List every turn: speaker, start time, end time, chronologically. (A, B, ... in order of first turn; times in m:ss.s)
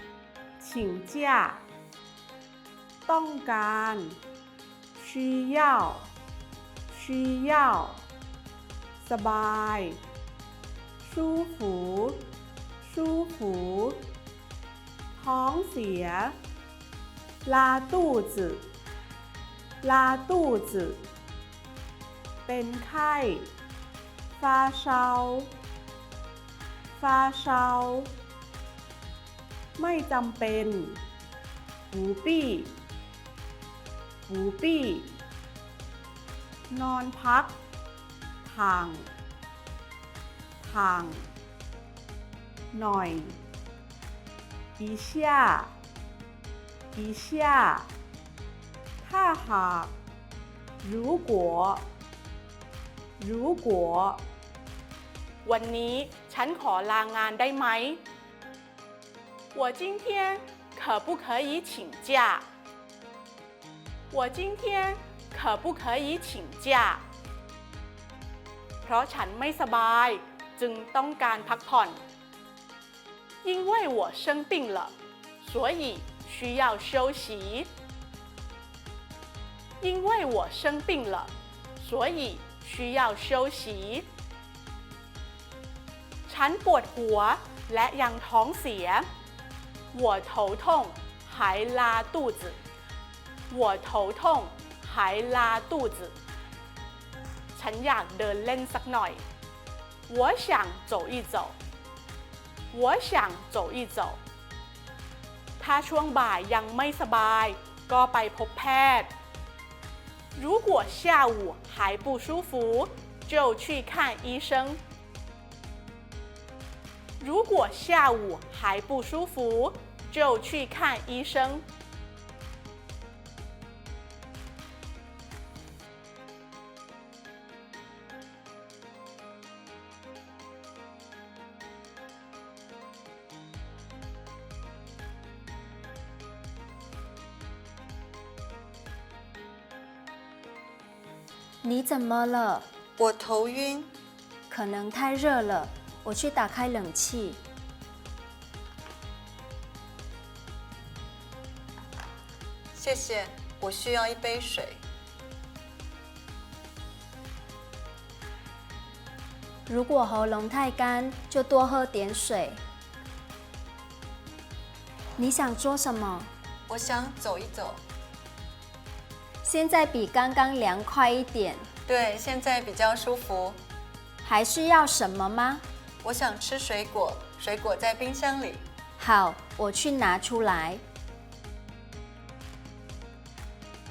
0:00.6-0:01.6 A
0:03.1-0:04.2 A
0:05.0-0:06.1 A
0:06.9-0:08.0 A
0:09.0-0:10.0 A
0:11.0-0:12.2 A
0:12.8-0:14.0 A
0:15.2-0:16.4 A
0:17.4-0:18.7 A
0:19.8-0:21.0 A
0:22.5-0:23.5 A
0:24.4-0:25.5 A
0:27.0-0:28.1 A
0:29.8-0:31.0 A
0:31.9-0:32.8 A
0:34.3-0:35.2 A
0:36.7-0:37.6 A
0:38.4-0:39.1 A
0:40.6-0:41.3 A
0:42.7-0:43.4 A
0:44.8-0:45.7 A
0:47.0-0:47.9 A
0:49.0-0:49.9 A
0:50.8-0:51.8 A
0:53.2-0:54.2 A
0:55.4-0:58.0 A
0:59.5-1:02.5 A
1:04.1-1:07.0 A
1:08.8-1:12.0 A
1:13.4-1:17.7 A
1:19.8-1:24.1 A
1:26.3-1:29.1 A
1:29.9-1:32.6 A
1:33.5-1:36.2 A
1:37.5-1:39.2 A
1:40.1-1:41.6 A
1:42.7-1:44.2 A
1:45.6-1:49.1 A
1:50.4-1:54.8 A
1:57.2-2:01.6 A
2:21.6-2:22.7 B
2:23.0-2:23.9 C
2:24.5-2:27.4 B
2:32.7-2:34.8 C
2:39.7-2:42.6 B
2:45.2-2:46.3 B
2:46.7-2:47.8 C
2:49.4-2:51.7 B
2:51.9-2:53.6 C
2:54.2-2:55.6 B
2:56.0-2:58.6 C
2:59.0-3:00.8 B